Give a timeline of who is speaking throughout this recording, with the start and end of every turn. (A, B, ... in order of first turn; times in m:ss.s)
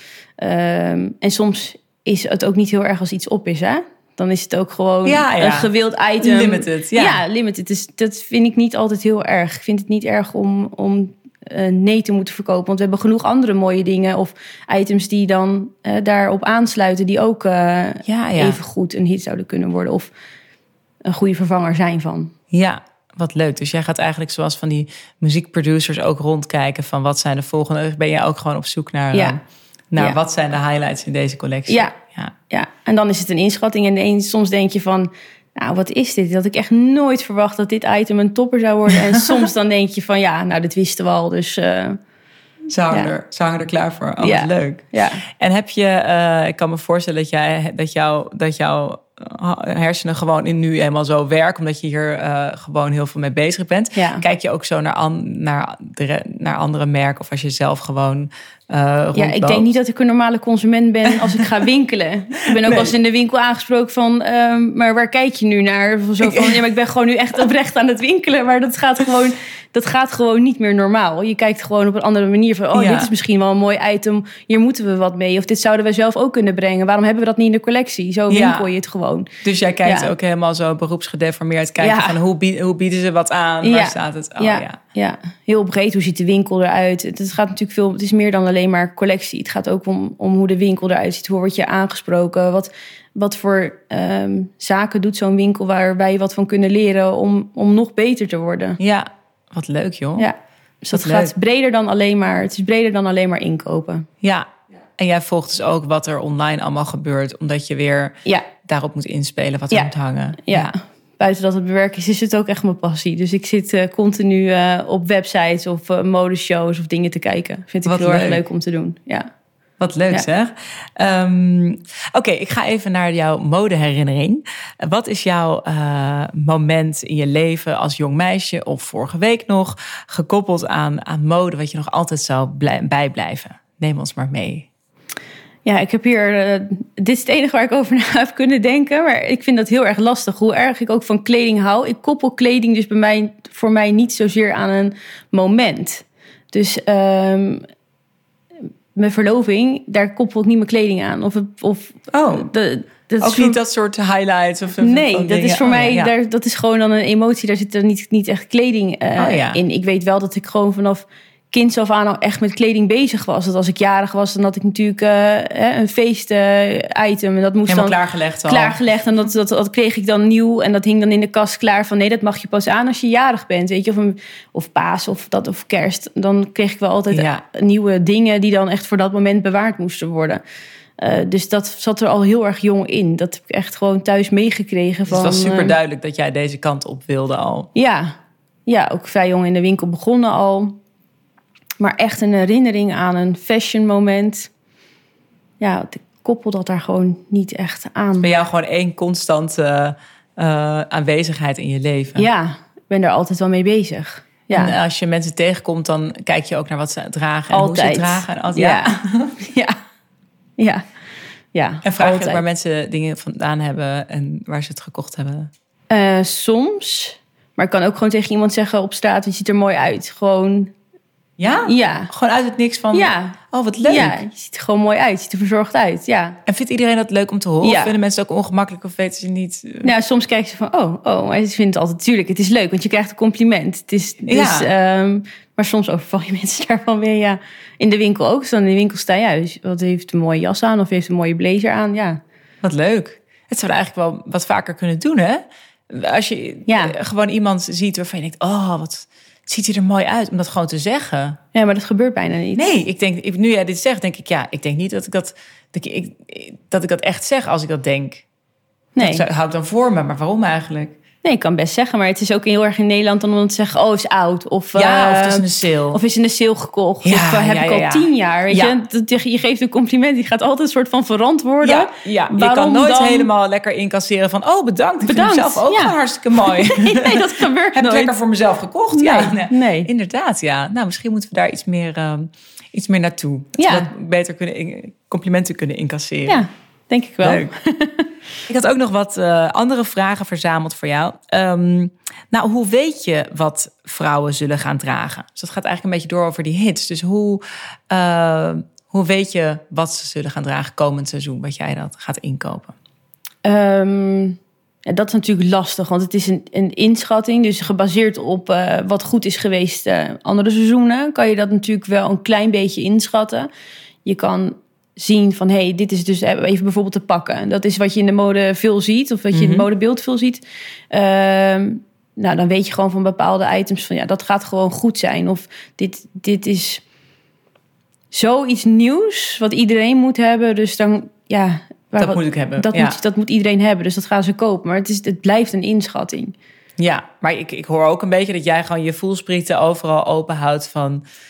0:00.4-0:20.1 A
0:05.0-0:07.2 B
0:18.0-0:18.6 B
0:21.1-0:22.3 A
0:22.5-0:29.4 B
0:29.1-0:29.4 A
0:29.9-0:32.3 B
0:31.7-0:32.0 A
0:32.5-0:42.0 A
0:38.9-0:39.2 B
0:42.7-0:44.8 B
0:44.2-0:45.2 A
0:45.4-0:59.7 B
0:54.0-0:54.2 A
0:59.2-1:19.3 A
1:02.6-1:02.9 B
1:06.2-1:06.6 B
1:12.7-1:13.1 B
1:18.3-1:18.7 B
1:19.4-1:24.8 B
1:19.8-1:20.1 A
1:21.8-1:22.2 A
1:23.6-1:38.8 A
1:38.8-1:40.3 B
1:40.2-1:44.1 A
1:40.9-1:41.3 B
1:44.2-1:44.5 B
1:45.0-1:50.7 B
1:50.4-1:59.3 A
1:57.8-1:58.4 B
1:59.8-2:14.7 B
2:15.6-2:27.6 A
2:29.0-2:33.6 A
2:32.1-2:32.5 B
2:33.2-2:36.1 B
2:34.8-3:00.4 A
2:39.2-2:39.6 B
2:47.7-2:48.8 B
2:57.1-2:57.4 B
3:01.0-3:05.8 A
3:05.1-3:07.7 B
3:07.8-3:08.1 A
3:08.7-3:10.8 A
3:11.8-3:14.5 A
3:15.6-3:18.3 A
3:18.2-3:22.3 B
3:22.2-3:24.8 A
3:24.5-3:29.4 B
3:27.5-3:29.8 A
3:30.6-3:30.8 A
3:31.5-3:32.4 A
3:31.8-3:35.5 B
3:35.9-3:40.7 A
3:41.4-3:44.2 B
3:41.6-3:42.1 A
3:42.9-3:46.4 A
3:46.5-3:49.9 B
3:47.6-3:47.9 A
3:49.8-4:02.2 A
3:54.3-3:54.7 B
4:02.6-4:11.4 B
4:06.7-4:07.0 A
4:11.5-4:12.7 A
4:12.6-4:18.2 B
4:19.0-4:19.2 A
4:19.0-4:21.0 B
4:21.2-4:33.3 A
4:24.8-4:26.0 B
4:27.0-4:28.8 B
4:31.6-4:46.4 B
4:35.0-4:38.2 A
4:38.9-4:39.9 A
4:43.6-4:43.9 A
4:46.3-4:48.1 A
4:47.2-4:47.5 B
4:48.5-5:02.8 B
5:03.4-5:13.5 A
5:14.0-5:26.8 A
5:19.3-5:19.7 B
5:28.1-5:36.3 A
5:32.0-5:33.0 B
5:36.8-5:41.0 B